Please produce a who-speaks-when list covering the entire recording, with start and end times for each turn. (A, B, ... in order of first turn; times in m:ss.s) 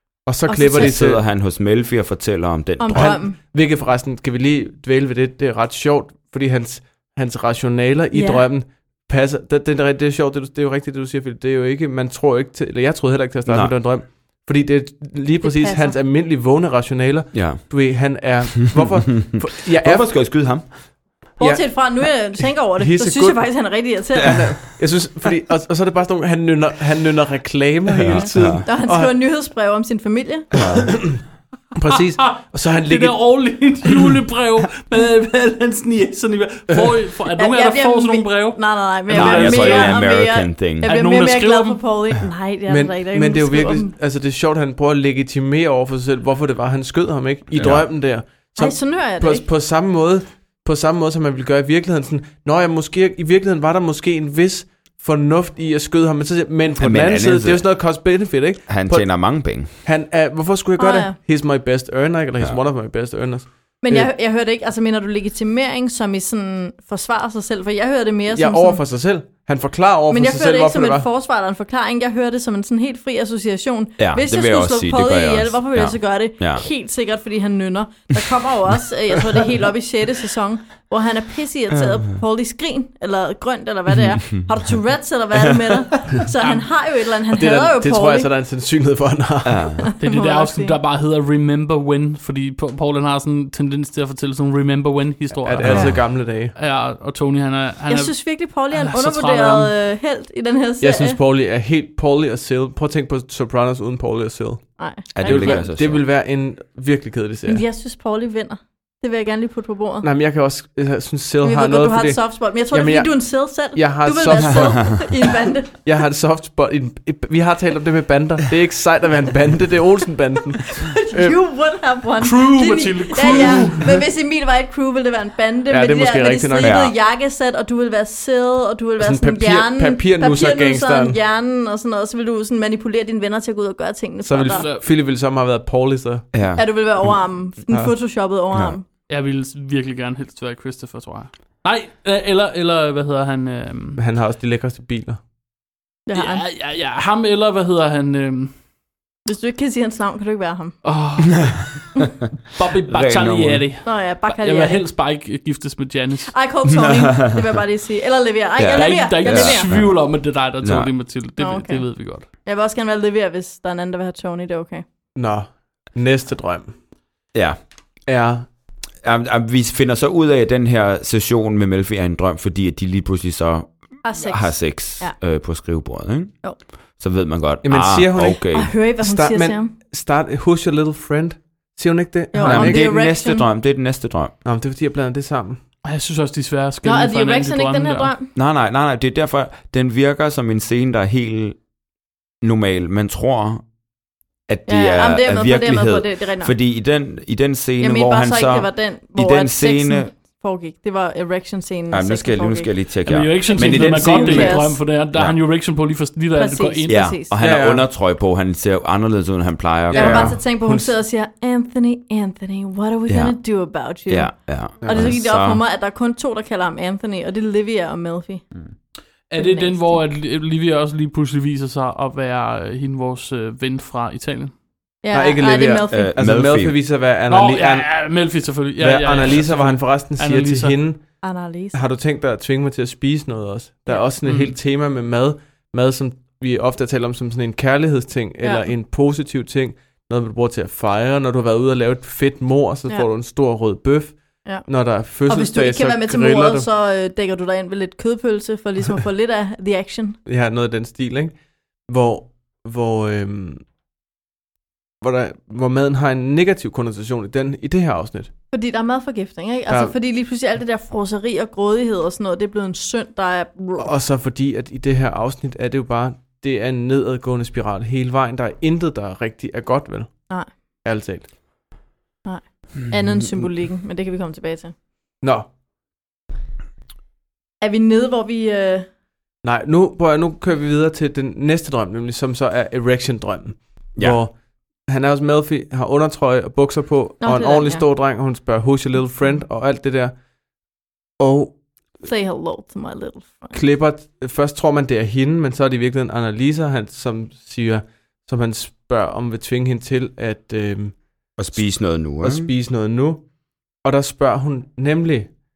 0:00.2-0:01.0 A
0:00.2-0:01.2 B
0:00.7-0:03.3 C
0:02.8-0:03.4 A
0:02.9-0:20.5 B
0:08.1-0:08.4 A
0:13.4-0:13.7 C
0:15.4-0:16.0 A
0:17.3-0:19.0 C
0:19.5-0:20.7 C
0:21.4-0:23.5 B
0:21.4-0:24.3 A
0:24.2-0:29.1 B
0:27.9-0:28.7 C
0:28.1-0:30.5 A
0:30.5-0:31.1 C
0:30.5-0:31.2 B
0:31.7-0:33.2 B
0:31.9-0:40.0 D
0:37.4-0:43.9 A
0:39.1-0:40.9 C
0:40.8-0:41.8 D
0:42.7-1:04.1 B
0:47.5-0:47.9 C
0:48.6-0:49.4 A
0:56.8-0:57.9 C
0:58.7-0:59.7 C
1:00.8-1:01.2 A
1:03.8-1:08.8 A
1:08.3-1:11.0 B
1:10.1-1:28.3 A
1:14.0-1:16.6 C
1:21.7-1:22.1 C
1:26.4-1:26.7 D
1:27.3-1:29.8 B
1:29.4-1:29.8 C
1:29.9-1:30.8 A
1:30.0-1:39.7 D
1:35.4-1:36.5 B
1:35.6-1:36.0 C
1:37.9-1:41.2 A
1:40.8-1:47.6 B
1:44.8-1:45.7 A
1:45.1-1:46.0 C
1:47.5-1:50.1 A
1:50.0-1:55.1 B
1:51.4-1:55.7 A
1:55.7-2:01.4 B
2:00.8-2:14.6 A
2:02.2-2:04.0 D
2:03.2-2:03.6 B
2:05.7-2:06.8 B
2:06.6-2:06.9 C
2:09.0-2:11.2 B
2:14.2-2:16.3 B
2:14.5-2:14.9 D
2:16.3-2:17.2 C
2:16.6-2:18.8 A
2:19.1-2:24.0 D
2:24.0-2:25.2 B
2:26.1-2:26.4 A
2:26.1-2:28.5 D
2:29.2-2:30.7 A
2:30.8-2:31.8 D
2:32.5-2:36.4 D
2:32.9-2:33.7 C
2:33.8-2:34.9 A
2:36.3-2:39.8 A
2:36.6-2:37.6 C
2:38.6-2:40.9 C
2:38.7-2:42.2 D
2:41.4-2:44.8 A
2:45.2-2:46.7 B
2:48.1-2:48.4 B
2:49.0-2:56.4 C
2:54.0-2:55.2 A
2:57.0-2:58.8 C
2:57.6-3:02.9 B
2:58.5-2:59.7 A
3:02.3-3:03.5 A
3:02.4-3:04.3 C
3:04.4-3:05.6 B
3:05.8-3:08.1 D
3:06.8-3:08.3 A
3:08.3-3:11.6 C
3:12.4-3:13.6 C
3:14.5-3:20.1 C
3:14.7-3:16.5 A
3:17.8-3:22.7 A
3:21.9-3:25.4 C
3:23.0-3:27.1 D
3:23.5-3:24.8 A
3:23.6-3:24.6 B
3:26.3-3:27.3 A
3:26.9-3:30.4 C
3:27.4-3:27.8 B
3:29.9-3:30.9 B
3:29.9-3:38.4 A
3:33.1-3:33.4 C
3:34.1-3:35.6 C
3:34.8-3:35.2 B
3:39.3-3:44.5 D
3:39.4-3:40.0 A
3:45.0-3:46.0 A
3:45.1-3:48.0 B
3:45.9-3:46.8 C
3:47.3-3:50.8 D
3:48.8-3:51.0 B
3:51.2-3:51.8 A
3:51.7-4:06.7 B
3:54.2-3:54.5 D
3:58.4-3:58.7 A
4:04.4-4:10.2 A
4:10.2-4:11.3 B
4:11.9-4:13.6 B
4:15.0-4:18.3 B
4:18.5-4:23.9 A
4:19.7-4:19.9 B
4:23.8-4:30.3 B
4:30.8-4:31.3 B
4:32.2-4:34.7 A
4:35.2-4:35.5 B
4:37.6-4:38.9 A
4:39.4-4:50.1 B
4:47.2-4:47.8 A
4:51.2-4:51.6 B
4:52.0-4:53.5 A
4:53.5-5:01.0 B
5:01.4-5:02.5 C
5:01.5-5:03.2 B
5:03.8-5:05.3 B